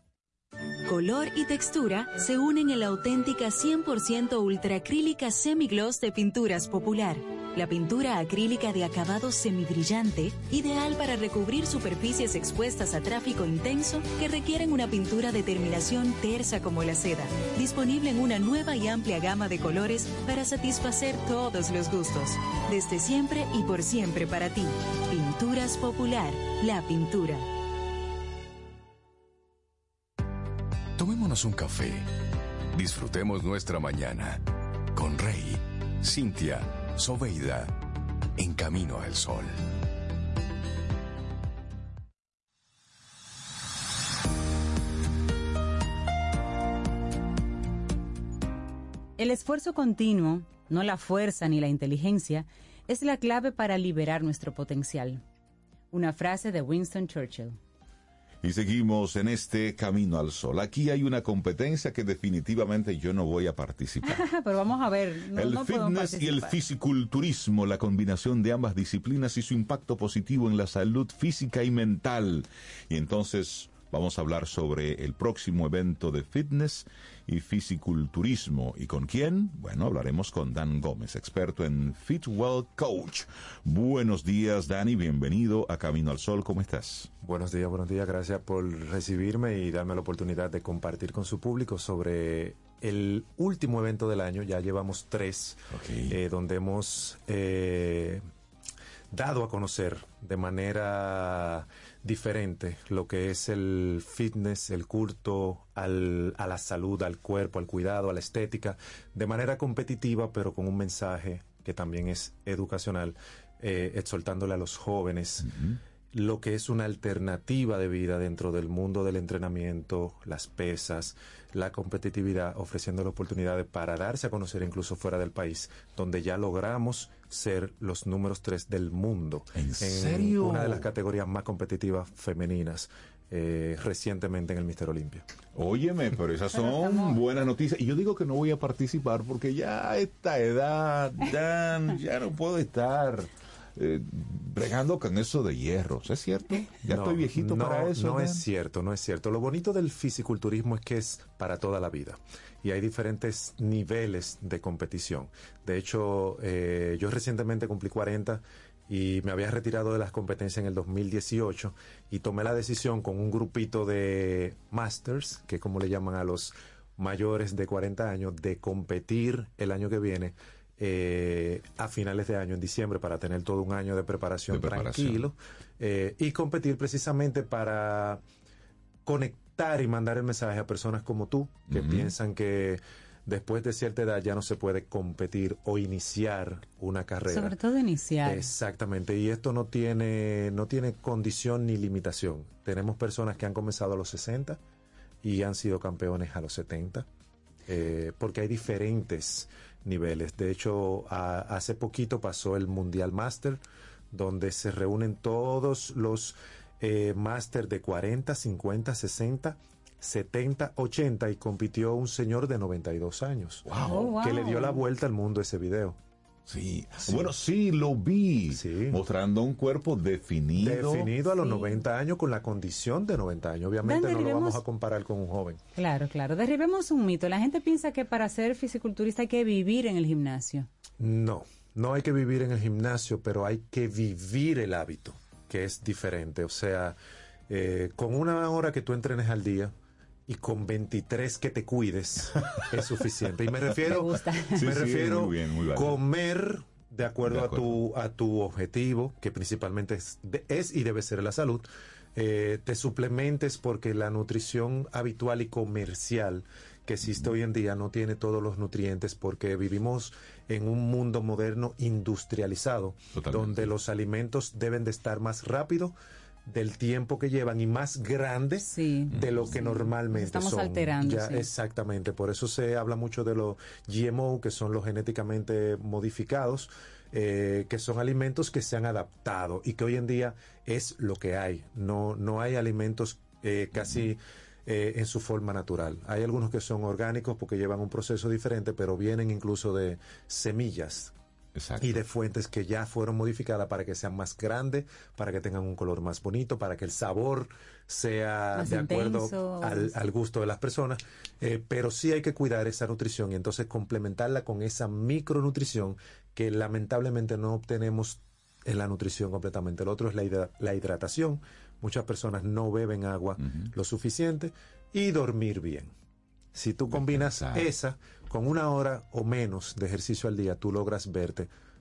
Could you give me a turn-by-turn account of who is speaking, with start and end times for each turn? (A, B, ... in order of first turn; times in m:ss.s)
0:00.9-0:27.5 A
0:31.0-0:32.1 B
0:32.7-0:37.8 B
0:38.4-0:39.6 B
0:49.2-0:55.2 C
0:55.9-0:57.6 C
0:58.4-1:04.2 D
1:04.0-1:06.6 C
1:05.3-1:27.1 D
1:27.2-1:38.2 E
1:35.7-1:36.2 D
1:39.1-1:55.5 E
1:55.4-1:55.8 D
1:56.1-2:15.2 E
2:09.6-2:10.9 D
2:15.6-2:28.4 D
2:16.5-2:17.2 C
2:26.9-2:58.2 E
2:54.5-2:55.3 D
2:59.1-3:07.6 E
3:01.7-3:02.1 D
3:07.3-3:08.5 C
3:08.2-3:14.6 E
3:15.2-3:17.1 E
3:17.7-3:23.6 E
3:24.1-3:36.0 E
3:33.6-3:34.2 D
3:33.9-3:34.8 C
3:36.5-3:41.1 D
3:37.0-3:37.3 E
3:38.5-3:39.0 E
3:40.6-3:45.6 E
3:41.3-3:41.8 C
3:43.8-3:44.6 C
3:45.8-3:50.7 C
3:51.0-3:57.0 E
3:57.5-3:59.7 E
4:00.3-4:26.0 E
4:03.8-4:04.7 C
4:04.6-4:06.0 D
4:07.2-4:07.8 D
4:17.0-4:17.3 D
4:23.2-4:23.7 D
4:26.5-4:51.1 E
4:28.6-4:31.5 C
4:29.1-4:29.6 D
4:43.8-4:44.1 D
4:51.6-4:52.0 D
4:51.8-5:15.9 E
4:58.6-5:00.0 C
5:13.4-5:13.7 D
5:16.5-5:21.5 E
5:16.9-5:17.7 D